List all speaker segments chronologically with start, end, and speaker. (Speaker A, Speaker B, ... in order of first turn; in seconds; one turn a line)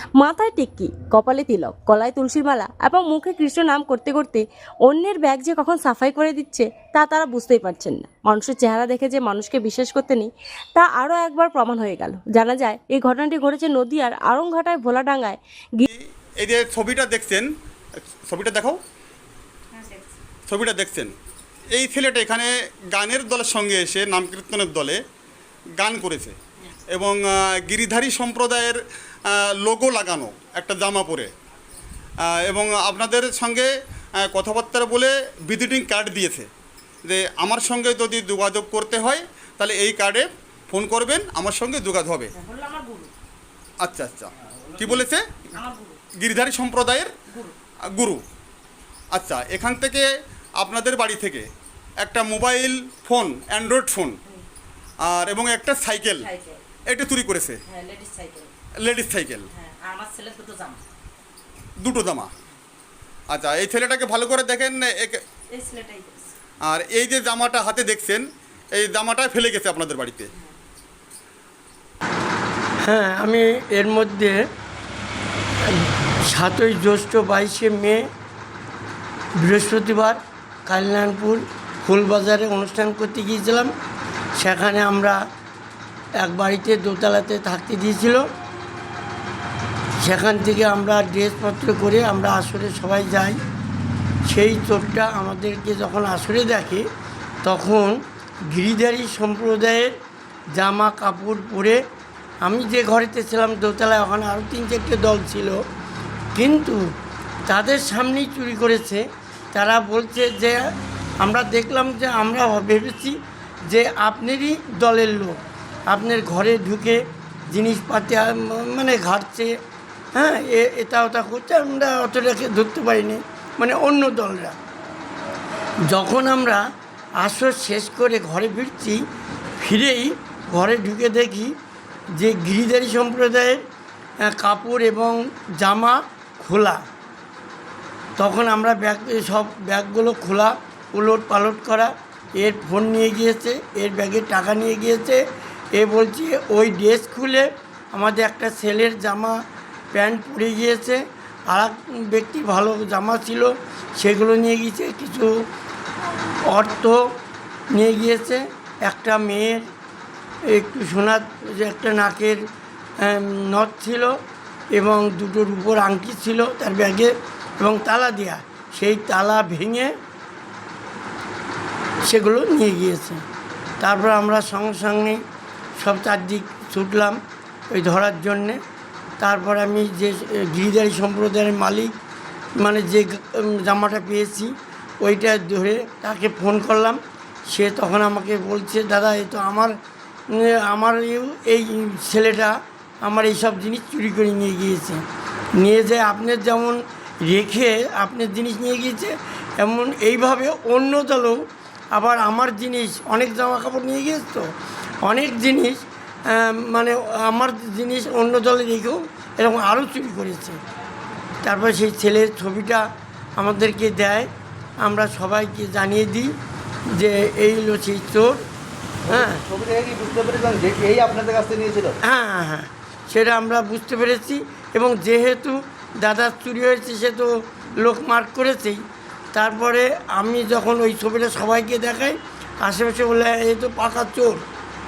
Speaker A: 0.2-15.9
Speaker B: 15.9-17.5
Speaker B: 18.3-18.8
Speaker B: 20.5-21.1
Speaker B: 21.7-25.0
Speaker B: 25.8-26.4
Speaker B: 26.9-31.3
Speaker B: 32.3-33.7
Speaker B: 34.3-36.5
Speaker B: 37.0-42.3
Speaker B: 43.8-45.2
Speaker B: 46.2-47.1
Speaker B: 47.9-48.2
Speaker B: 49.1-50.1
Speaker B: 50.6-51.5
Speaker B: 52.0-54.2
Speaker B: 55.1-56.3
Speaker B: 56.9-57.6
Speaker C: 57.8-58.5
Speaker B: 58.8-59.5
Speaker C: 59.6-60.8
Speaker B: 61.8-62.3
Speaker B: 63.3-65.2
Speaker C: 65.6-66.2
Speaker A: 65.6-66.1
Speaker B: 66.7-70.3
Speaker D: 72.8-74.4
Speaker D: 75.8-78.1
Speaker D: 79.4-83.7
Speaker D: 84.4-85.2
Speaker D: 86.2-88.2
Speaker D: 90.0-93.4
Speaker D: 94.3-96.9
Speaker D: 97.4-98.0
Speaker D: 98.5-99.9
Speaker D: 100.5-101.8
Speaker D: 102.4-105.6
Speaker D: 106.3-106.8
Speaker D: 107.5-109.0
Speaker D: 109.5-110.6
Speaker D: 111.2-113.2
Speaker D: 113.7-117.0
Speaker D: 117.5-119.5
Speaker D: 120.2-124.6
Speaker D: 125.9-126.6
Speaker D: 127.2-129.0
Speaker D: 129.6-131.5
Speaker D: 132.2-133.6
Speaker D: 134.2-136.8
Speaker D: 138.2-145.2
Speaker D: 145.8-149.4
Speaker D: 149.9-155.3
Speaker D: 156.5-157.0
Speaker D: 157.7-159.7
Speaker D: 160.5-162.4
Speaker D: 163.0-164.2
Speaker D: 164.7-169.9
Speaker D: 172.1-173.2
Speaker D: 173.8-175.2
Speaker D: 175.8-177.2
Speaker D: 177.7-178.6
Speaker D: 179.2-181.9
Speaker D: 182.6-189.7
Speaker D: 190.3-195.0
Speaker D: 195.6-204.5
Speaker D: 205.0-210.6
Speaker D: 211.4-212.9
Speaker D: 213.4-214.3
Speaker D: 214.8-216.3
Speaker D: 216.9-218.4
Speaker E: 219.1-222.0
Speaker D: 219.1-219.4
Speaker D: 222.1-228.8
Speaker D: 229.3-234.4